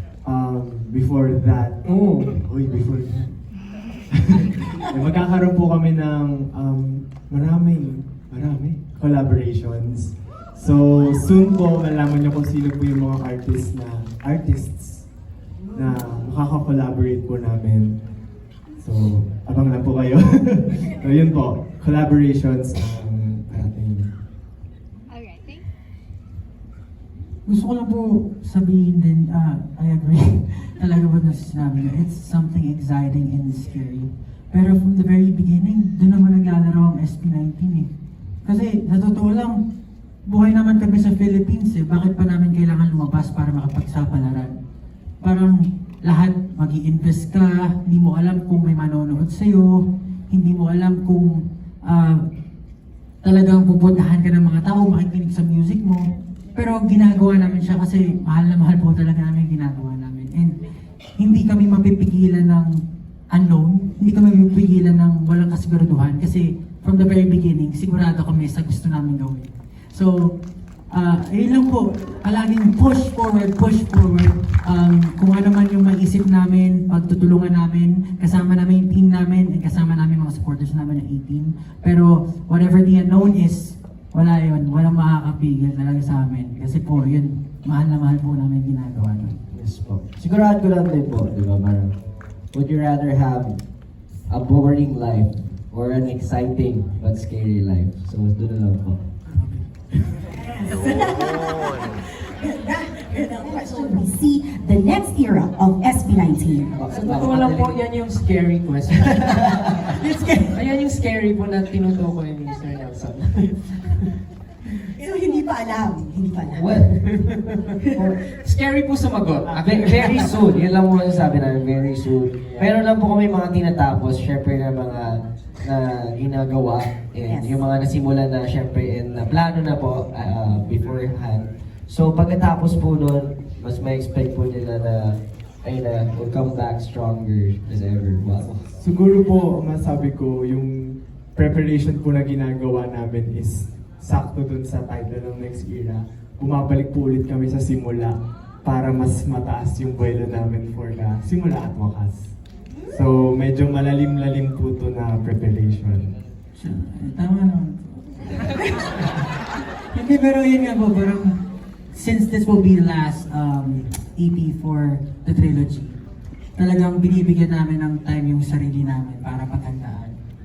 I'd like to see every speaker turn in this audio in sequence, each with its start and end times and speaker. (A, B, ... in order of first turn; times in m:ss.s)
0:00.2-0:15.1 A
0:01.8-0:02.4 B
0:15.7-0:18.1 A
0:18.8-0:24.2 A
0:27.4-0:37.9 C
0:38.4-0:39.6 C
0:40.2-0:44.6 C
0:45.2-0:52.3 C
0:53.2-1:00.6 C
1:01.2-1:02.7 C
1:03.3-1:10.4 C
1:10.9-1:29.4 C
1:29.5-1:39.0 D
1:39.3-1:39.7 C
1:40.4-1:41.6 E
1:42.4-1:47.1 E
1:46.8-1:47.8 D
1:46.9-1:54.2 B
1:48.9-1:49.4 D
1:55.0-1:56.9 E
1:56.5-1:57.1 D
1:56.7-2:00.4 B
1:59.5-2:18.7 D
2:18.8-2:32.4 A
2:32.9-2:36.2 A
2:36.6-2:38.9 C
2:39.9-2:41.4 C
2:41.9-2:46.0 C
2:46.6-2:50.2 C